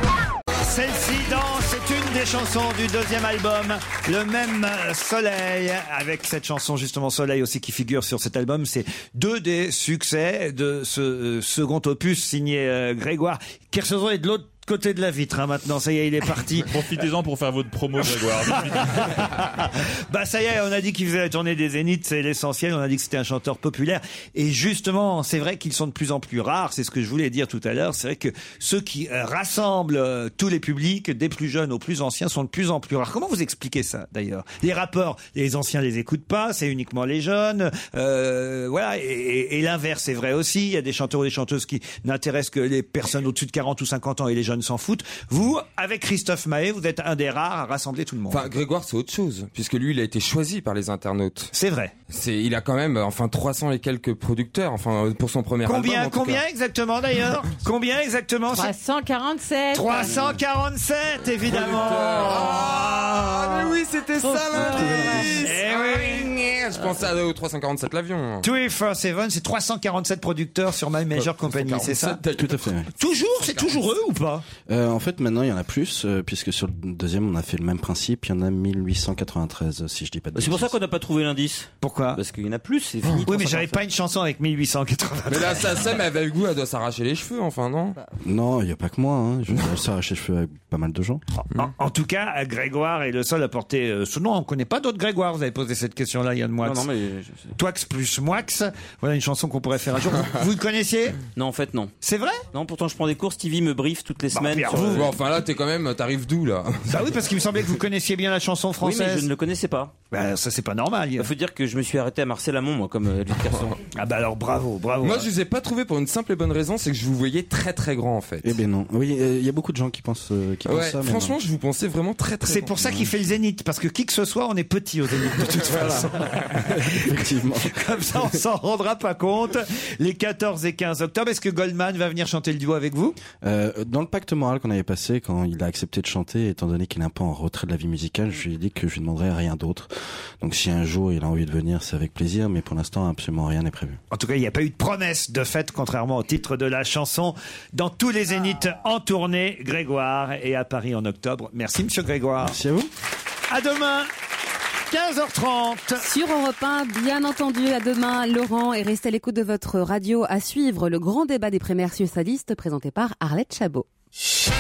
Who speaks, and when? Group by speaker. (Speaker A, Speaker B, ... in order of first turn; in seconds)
Speaker A: 0.6-16.7, 18.5-48.5, 51.5-51.9, 55.6-58.7, 59.7-63.7, 65.4-66.3, 68.4-72.2, 72.9-74.5, 81.8-82.2, 83.2-86.0, 91.5-96.9, 97.6-101.2, 102.0-102.4, 104.3-105.2, 106.9-109.3, 110.1-111.3, 113.9-115.3, 122.4-133.2, 144.1-152.6, 153.5-154.1, 154.9-156.0
Speaker B: 16.6-19.2
Speaker C: 48.3-51.5, 52.1-56.4, 61.4-68.5, 71.2-72.7, 73.4-73.8, 85.3-88.0, 104.9-107.0, 115.0-118.5, 120.6-123.1, 125.5-126.5
Speaker D: 58.5-60.3, 64.2-65.5
Speaker E: 72.3-72.9, 74.7-80.7, 88.2-91.2, 118.4-121.4, 125.7-127.8, 133.4-139.9, 140.4-144.0, 152.4-152.9
Speaker F: 80.3-83.8, 96.6-97.5, 101.3-101.9, 102.5-105.1, 108.8-109.9, 111.2-113.8
Speaker G: 156.0-163.8